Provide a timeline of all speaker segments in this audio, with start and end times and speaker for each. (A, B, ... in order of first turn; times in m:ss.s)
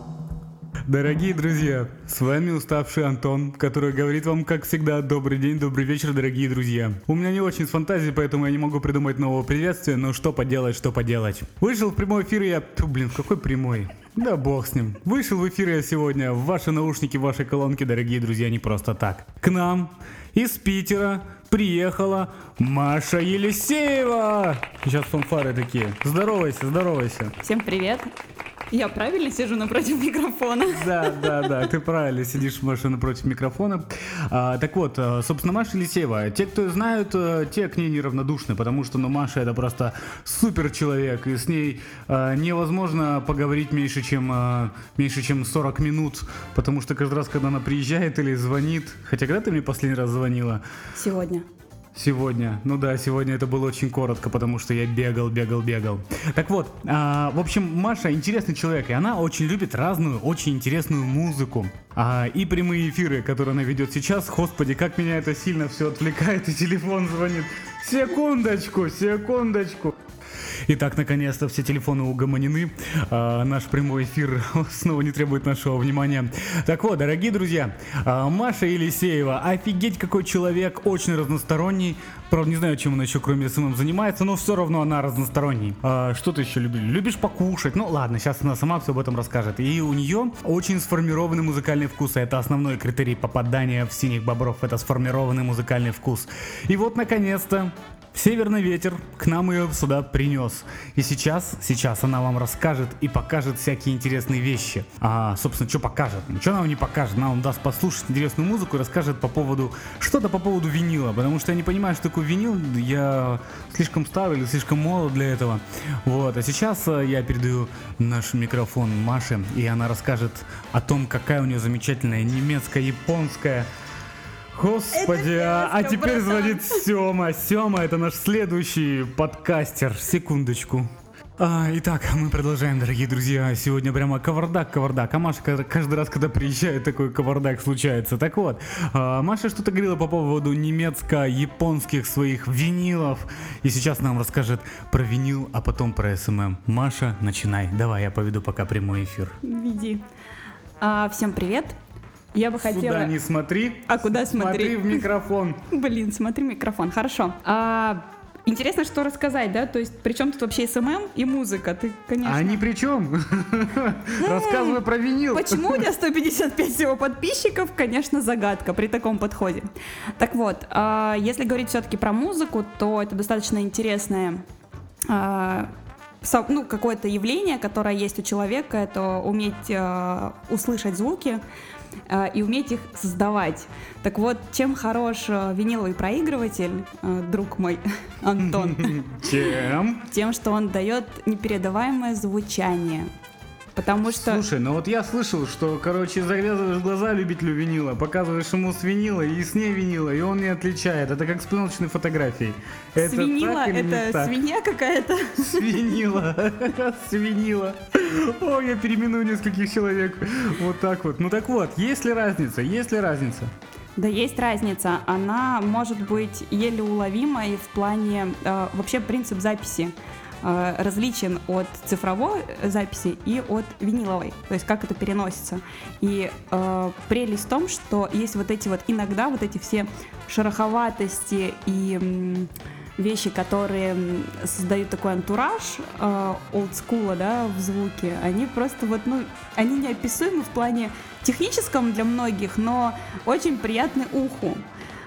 0:00.9-0:27.3 A
0:27.4-0:28.1 B
0:28.7-0:31.5 B
0:30.7-0:50.6 A
0:51.0-0:51.5 B
0:52.0-1:10.0 A
1:10.7-2:03.7 A
2:04.5-2:29.4 A
2:04.9-2:06.8 B
2:29.4-2:30.0 B
2:30.8-2:31.8 B
2:32.3-2:33.2 B
2:32.7-2:35.6 A
2:33.9-2:35.0 B
2:35.7-2:42.6 B
2:42.2-2:45.9 A
2:44.2-2:54.4 B
2:55.1-2:55.7 B
2:56.2-3:01.4 B
3:02.1-3:09.3 B
3:08.4-3:10.1 A
3:10.1-3:13.1 B
3:13.8-3:14.4 B
3:14.0-3:24.4 A
3:23.0-3:25.7 B
3:25.4-3:33.5 A
3:34.0-4:04.6 B